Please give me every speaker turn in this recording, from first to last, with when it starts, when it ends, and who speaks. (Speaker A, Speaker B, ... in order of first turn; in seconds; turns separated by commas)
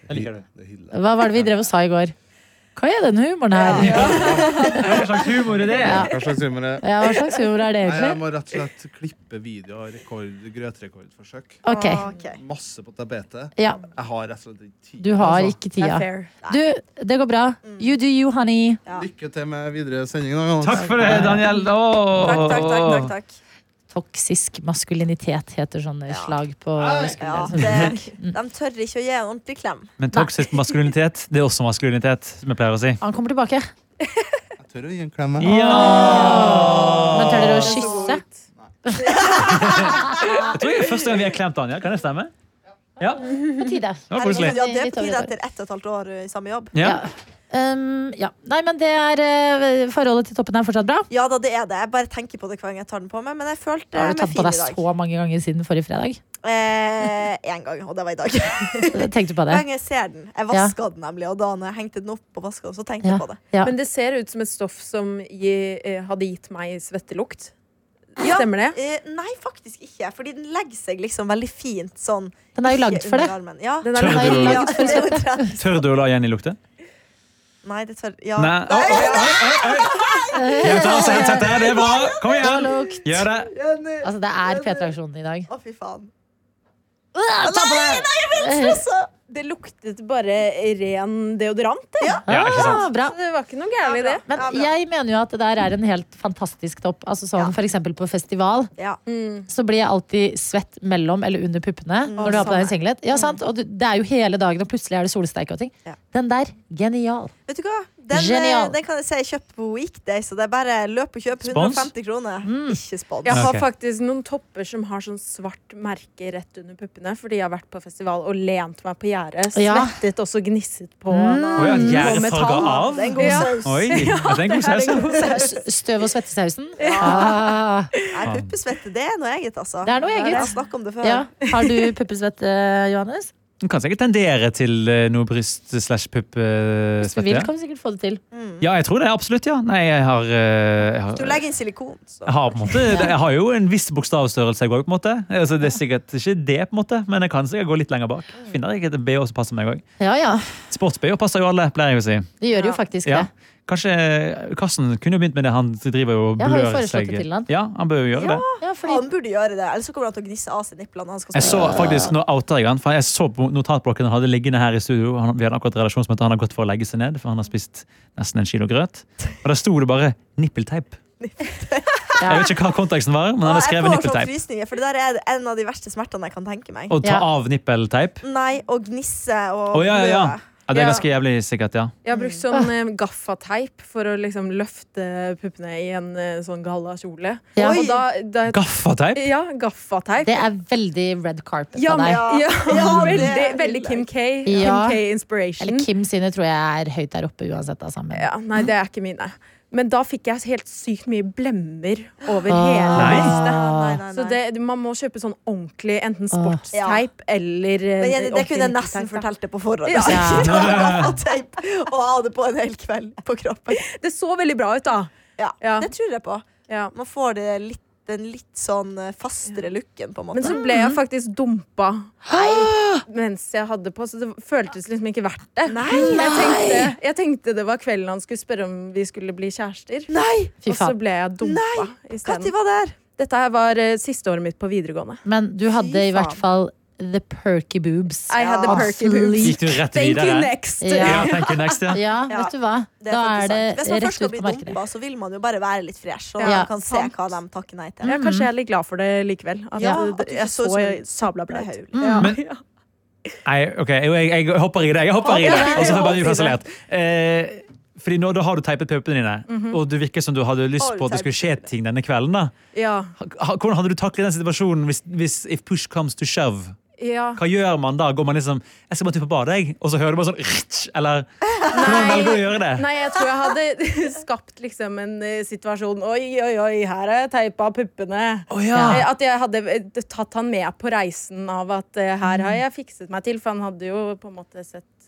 Speaker A: 0.1-0.4, Speaker B: 0.1-1.0, Speaker C: 0.9-2.1, Speaker C: 2.8-4.8, Speaker D: 3.5-5.0, Speaker A: 3.8-6.1, Speaker B: 5.7-6.9, Speaker C: 5.8-6.1, Speaker C: 6.8-8.2, Speaker B: 7.8-11.6, Speaker C: 11.7-12.0, Speaker D: 11.7-12.4, Speaker B: 12.3-15.5, Speaker C: 15.0-18.8, Speaker E: 15.8-16.3, Speaker D: 17.6-17.9, Speaker B: 18.9-21.4, Speaker A: 20.6-23.1, Speaker C: 20.7-21.5, Speaker D: 22.2-23.4, Speaker C: 23.9-28.3, Speaker D: 26.1-26.4, Speaker B: 26.9-27.2, Speaker A: 27.0-27.9, Speaker D: 27.2-29.9, Speaker A: 30.0-33.0, Speaker C: 33.0-33.7, Speaker B: 34.6-35.6, Speaker A: 35.4-37.7, Speaker C: 35.4-38.2, Speaker B: 36.7-37.0, Speaker E: 37.6-38.5, Speaker B: 38.6-38.9, Speaker D: 39.1-39.7, Speaker E: 39.1-39.4, Speaker A: 39.4-40.0, Speaker C: 39.7-40.3, Speaker A: 40.5-42.3, Speaker A: 43.0-43.2, Speaker C: 43.3-45.3, Speaker A: 44.1-44.6, Speaker D: 44.1-46.7, Speaker A: 46.7-47.0, Speaker C: 46.8-51.1, Speaker D: 51.1-54.8, Speaker C: 53.9-56.2, Speaker D: 56.4-63.4, Speaker C: 58.9-59.6, Speaker C: 63.0-63.7, Speaker E: 63.6-67.5, Speaker E: 68.2-68.8, Speaker D: 68.2-75.7, Speaker C: 72.5-73.4, Speaker E: 73.8-75.1, Speaker C: 73.9-75.5, Speaker A: 74.0-74.7, Speaker A: 75.6-76.6, Speaker D: 77.6-82.7, Speaker A: 78.4-83.5, Speaker C: 80.3-83.2, Speaker D: 83.4-84.9, Speaker C: 84.0-85.5, Speaker D: 85.5-86.1, Speaker C: 87.2-88.8, Speaker D: 87.4-89.1, Speaker E: 89.3-92.2, Speaker D: 92.0-92.2, Speaker C: 92.3-93.1, Speaker A: 92.3-92.8, Speaker E: 92.8-94.2, Speaker D: 93.8-94.7, Speaker C: 94.3-98.7, Speaker E: 99.1-99.5, Speaker C: 99.5-107.3, Speaker D: 102.1-103.3, Speaker E: 102.2-102.7, Speaker D: 107.5-113.5, Speaker C: 108.1-108.8, Speaker A: 111.4-111.9, Speaker C: 112.4-112.8, Speaker E: 113.2-125.3, Speaker A: 113.3-113.7, Speaker C: 119.5-120.0, Speaker C: 121.1-121.9, Speaker D: 121.5-124.3, Speaker A: 121.6-125.2, Speaker C: 123.2-123.5, Speaker C: 125.1-127.9, Speaker D: 126.8-127.4, Speaker E: 126.8-128.2, Speaker D: 128.1-131.3, Speaker A: 128.2-128.5, Speaker C: 129.8-130.5, Speaker E: 130.2-130.5, Speaker C: 131.0-133.3, Speaker A: 133.6-137.5, Speaker C: 137.0-138.2, Speaker D: 138.3-138.7, Speaker A: 138.6-141.4, Speaker D: 141.1-143.0, Speaker A: 142.3-149.8, Speaker D: 148.3-148.6, Speaker C: 150.0-150.5, Speaker A: 150.7-152.3, Speaker C: 152.4-153.3, Speaker A: 153.1-158.4, Speaker C: 156.4-157.5, Speaker D: 158.1-162.1, Speaker C: 158.6-159.1, Speaker A: 161.3-171.0, Speaker C: 161.4-162.1, Speaker D: 171.2-172.4, Speaker C: 172.2-172.5, Speaker A: 172.3-174.3, Speaker D: 173.4-176.9, Speaker A: 176.9-178.2, Speaker D: 178.2-181.1, Speaker A: 179.7-181.9, Speaker E: 182.0-188.6, Speaker D: 182.1-182.5, Speaker C: 187.6-187.8, Speaker D: 187.6-188.1, Speaker A: 188.5-189.3, Speaker E: 189.2-190.5, Speaker C: 190.2-192.2, Speaker E: 191.8-195.9, Speaker D: 192.0-194.1, Speaker C: 192.8-193.3, Speaker C: 194.5-195.0, Speaker C: 195.6-198.3, Speaker E: 198.1-209.3, Speaker C: 202.5-204.0, Speaker A: 202.9-203.3, Speaker D: 203.0-204.4, Speaker C: 206.3-206.6, Speaker D: 206.7-207.0, Speaker D: 208.0-213.9, Speaker E: 209.9-210.9, Speaker C: 210.1-210.5, Speaker A: 210.4-211.1, Speaker E: 213.7-215.9, Speaker D: 215.4-220.7, Speaker E: 216.7-216.9, Speaker E: 220.3-222.2, Speaker C: 222.3-223.0, Speaker E: 223.1-232.5, Speaker D: 225.7-226.9, Speaker C: 225.9-226.7, Speaker D: 230.1-230.6, Speaker C: 230.7-231.0, Speaker D: 231.4-233.0, Speaker E: 233.2-235.2, Speaker C: 235.2-239.6, Speaker D: 235.7-236.4, Speaker E: 238.3-241.8, Speaker D: 238.4-238.9, Speaker A: 239.4-242.0, Speaker C: 240.8-241.3, Speaker C: 241.9-244.8, Speaker D: 242.3-248.2, Speaker E: 246.4-247.3, Speaker C: 246.4-246.7, Speaker E: 248.0-252.6, Speaker C: 248.1-248.5, Speaker D: 249.8-252.3, Speaker C: 251.9-252.2, Speaker A: 253.4-262.5, Speaker E: 255.2-256.4, Speaker D: 255.3-256.6, Speaker E: 259.5-259.8, Speaker D: 260.8-261.7, Speaker E: 262.7-263.1, Speaker A: 263.2-266.8, Speaker E: 267.0-267.4, Speaker A: 267.4-272.9, Speaker D: 271.6-272.2, Speaker E: 271.7-284.9, Speaker A: 278.5-279.1, Speaker C: 278.7-279.0, Speaker C: 282.3-282.6